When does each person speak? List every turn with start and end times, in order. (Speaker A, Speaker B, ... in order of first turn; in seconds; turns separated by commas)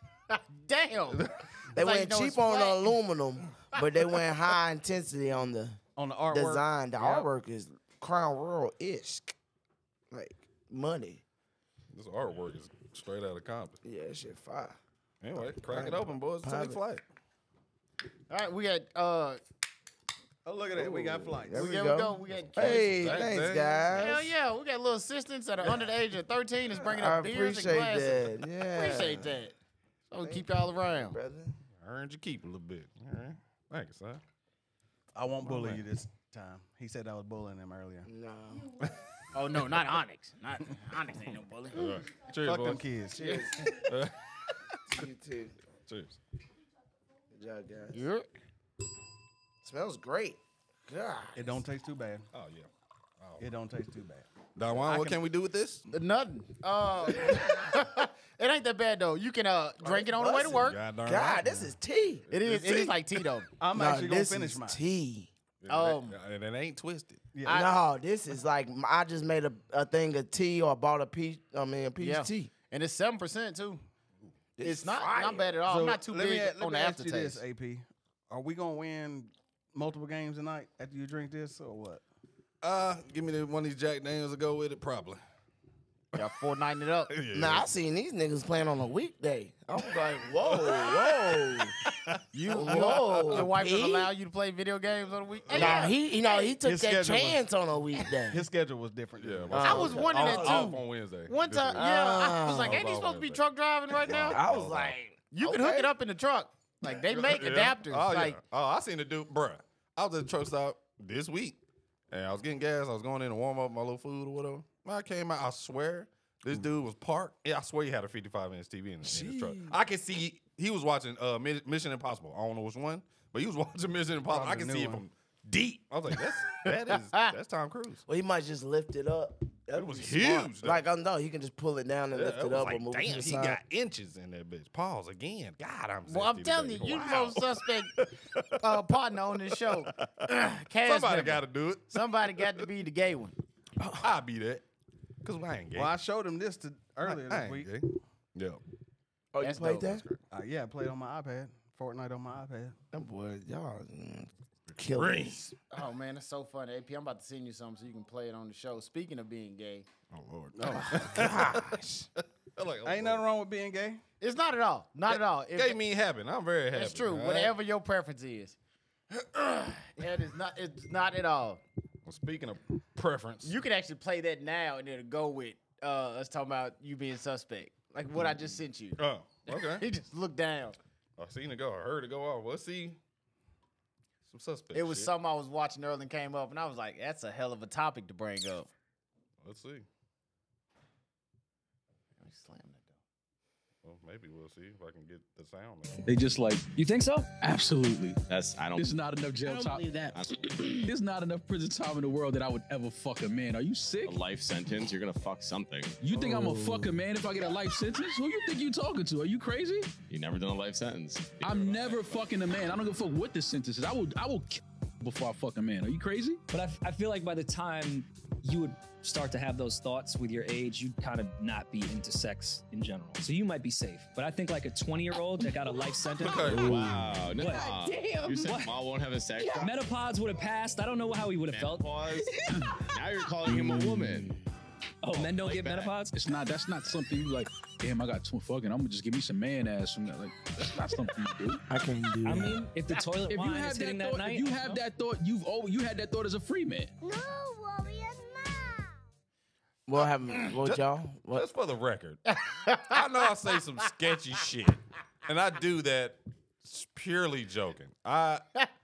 Speaker A: 0.3-2.9, Speaker B: 1.7-5.8, Speaker C: 6.0-7.3, Speaker B: 6.3-9.3, Speaker B: 10.1-11.2, Speaker D: 11.9-13.8, Speaker B: 13.8-14.8, Speaker D: 15.2-17.0, Speaker B: 15.6-16.8, Speaker A: 18.3-19.4, Speaker C: 20.4-21.8, Speaker B: 20.8-24.3, Speaker A: 21.6-22.9, Speaker D: 22.3-24.1, Speaker A: 23.9-29.6, Speaker B: 26.7-29.4, Speaker A: 30.1-31.2, Speaker B: 30.2-31.6, Speaker D: 31.8-34.2, Speaker C: 35.1-38.1, Speaker D: 35.4-35.9, Speaker B: 38.0-38.7, Speaker A: 39.3-41.9, Speaker D: 41.7-42.8, Speaker C: 42.5-43.3, Speaker B: 43.1-43.7, Speaker D: 43.8-44.1, Speaker B: 44.9-45.6, Speaker D: 45.9-46.2, Speaker B: 47.3-48.0, Speaker A: 47.9-48.3, Speaker B: 49.6-51.6, Speaker C: 51.4-52.3, Speaker D: 52.3-52.7, Speaker C: 53.4-55.2, Speaker D: 54.6-55.9, Speaker A: 55.9-60.8, Speaker B: 59.8-62.3, Speaker D: 60.5-61.7, Speaker D: 62.3-63.0, Speaker A: 62.3-63.5, Speaker C: 63.6-64.8, Speaker B: 63.7-65.3, Speaker D: 65.6-67.3, Speaker A: 65.7-66.2, Speaker C: 67.3-67.7, Speaker B: 67.5-72.5, Speaker A: 72.0-73.8, Speaker B: 74.6-75.5, Speaker A: 74.6-77.4, Speaker C: 75.7-82.0, Speaker D: 82.6-85.2, Speaker A: 86.2-87.1, Speaker D: 87.1-87.7, Speaker B: 87.3-91.8, Speaker D: 90.4-93.5, Speaker A: 92.3-96.5, Speaker B: 92.5-94.1, Speaker D: 95.5-95.8, Speaker B: 95.5-98.5, Speaker C: 96.6-97.4, Speaker C: 98.3-99.9, Speaker D: 99.2-101.8, Speaker B: 99.5-100.7, Speaker A: 99.6-104.4, Speaker B: 101.7-102.8, Speaker D: 102.6-103.4, Speaker D: 104.0-105.0, Speaker B: 104.3-105.9, Speaker A: 105.3-108.4, Speaker D: 107.1-111.6, Speaker D: 112.1-128.0, Speaker C: 119.0-119.8, Speaker C: 124.3-125.0, Speaker A: 126.6-127.3, Speaker B: 128.1-133.6, Speaker D: 129.7-130.8, Speaker D: 132.1-138.6, Speaker A: 136.1-137.9, Speaker A: 138.5-143.4, Speaker D: 139.6-140.3, Speaker D: 140.8-142.7, Speaker B: 143.8-144.1, Speaker D: 144.0-144.6, Speaker D: 145.2-146.0, Speaker C: 145.8-147.7, Speaker D: 147.0-148.6, Speaker B: 149.3-150.0, Speaker A: 149.4-149.9, Speaker D: 149.9-150.2, Speaker C: 150.3-152.8, Speaker B: 152.9-155.4, Speaker D: 154.8-155.6, Speaker A: 155.7-159.9, Speaker D: 160.1-163.2, Speaker C: 160.6-161.5, Speaker B: 161.1-162.1, Speaker C: 162.8-164.0, Speaker A: 164.2-165.8, Speaker D: 165.1-167.5, Speaker A: 166.7-168.6, Speaker A: 169.1-171.6, Speaker D: 172.1-173.6, Speaker A: 173.4-180.8, Speaker D: 179.0-179.8, Speaker D: 181.2-183.0, Speaker D: 184.3-185.1, Speaker A: 184.7-188.7, Speaker D: 189.4-189.9, Speaker A: 192.2-193.0, Speaker D: 193.8-196.1, Speaker E: 196.1-196.7, Speaker F: 196.8-197.3, Speaker E: 197.4-198.2, Speaker G: 198.3-199.0, Speaker E: 198.8-204.2, Speaker G: 199.5-200.9, Speaker G: 204.0-206.2, Speaker E: 206.0-209.9, Speaker B: 206.2-206.9, Speaker G: 210.1-212.3, Speaker E: 211.4-216.4, Speaker F: 216.5-227.7, Speaker D: 226.2-227.0, Speaker G: 226.5-229.9, Speaker H: 227.5-228.5, Speaker F: 228.3-228.8, Speaker F: 229.5-231.9, Speaker G: 231.5-232.3, Speaker G: 232.9-234.4, Speaker E: 233.5-234.1, Speaker F: 235.0-236.2, Speaker G: 235.1-236.0, Speaker E: 236.1-241.6, Speaker B: 241.7-242.6, Speaker F: 242.2-244.8, Speaker E: 243.3-246.9, Speaker H: 247.0-249.0, Speaker B: 249.9-251.5, Speaker D: 250.6-252.2, Speaker A: 252.3-253.6, Speaker D: 252.9-258.5